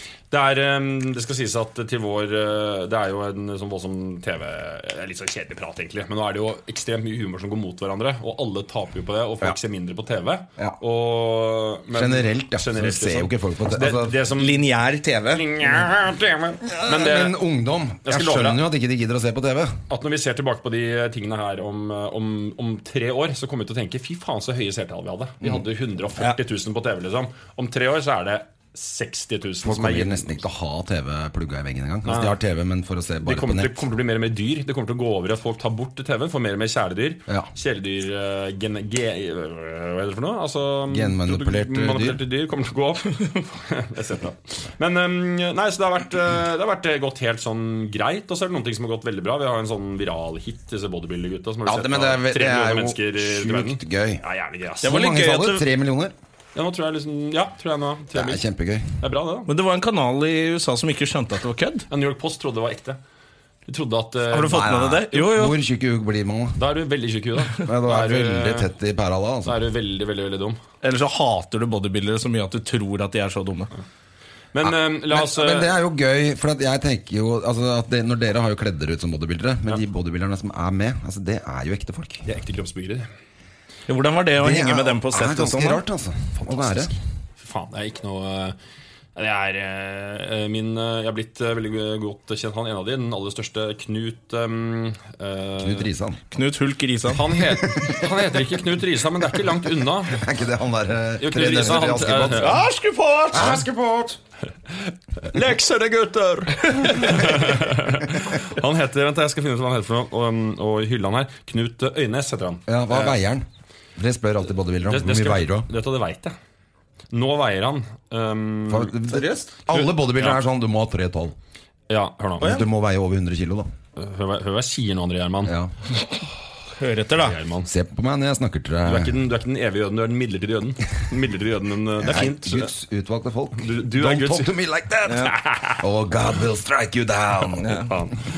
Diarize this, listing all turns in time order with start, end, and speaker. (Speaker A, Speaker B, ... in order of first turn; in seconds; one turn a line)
Speaker A: 0.3-14.6
Speaker B: 11.9-14.2
Speaker C: 14.4-15.5
Speaker A: 15.3-17.4
Speaker B: 16.8-19.8
Speaker A: 18.1-18.6
Speaker A: 19.9-30.4
Speaker B: 29.6-33.8
Speaker A: 32.0-32.4
Speaker A: 33.2-55.1
Speaker B: 40.9-42.2
Speaker B: 51.7-54.2
Speaker C: 54.8-55.6
Speaker B: 54.8-56.1
Speaker A: 56.5-58.4
Speaker B: 58.1-59.0
Speaker A: 59.0-59.5
Speaker C: 59.5-61.9
Speaker A: 61.9-63.0
Speaker A: 63.7-65.3
Speaker C: 64.3-65.5
Speaker B: 64.5-66.6
Speaker A: 66.6-68.7
Speaker B: 67.6-69.6
Speaker A: 69.5-70.6
Speaker C: 70.8-73.7
Speaker A: 74.5-75.7
Speaker B: 74.6-82.3
Speaker A: 82.2-83.1
Speaker C: 83.9-85.8
Speaker B: 84.4-86.9
Speaker A: 86.4-88.6
Speaker A: 89.2-95.9
Speaker B: 95.6-96.2
Speaker C: 96.3-97.3
Speaker A: 97.1-100.3
Speaker B: 100.1-102.6
Speaker A: 101.2-102.6
Speaker C: 102.3-103.6
Speaker B: 103.3-104.2
Speaker A: 105.2-113.2
Speaker C: 106.9-107.2
Speaker B: 112.7-113.5
Speaker B: 114.0-115.7
Speaker A: 114.9-116.3
Speaker A: 117.1-118.9
Speaker B: 118.7-121.3
Speaker C: 119.1-119.6
Speaker A: 121.9-122.6
Speaker C: 122.4-122.7
Speaker B: 122.4-123.7
Speaker A: 124.0-125.5
Speaker B: 125.5-125.7
Speaker C: 126.8-127.4
Speaker A: 127.2-127.7
Speaker B: 127.7-129.1
Speaker A: 128.8-132.7
Speaker B: 132.0-137.8
Speaker A: 133.6-134.5
Speaker C: 135.1-135.3
Speaker A: 135.2-135.8
Speaker C: 137.6-137.9
Speaker A: 137.9-138.2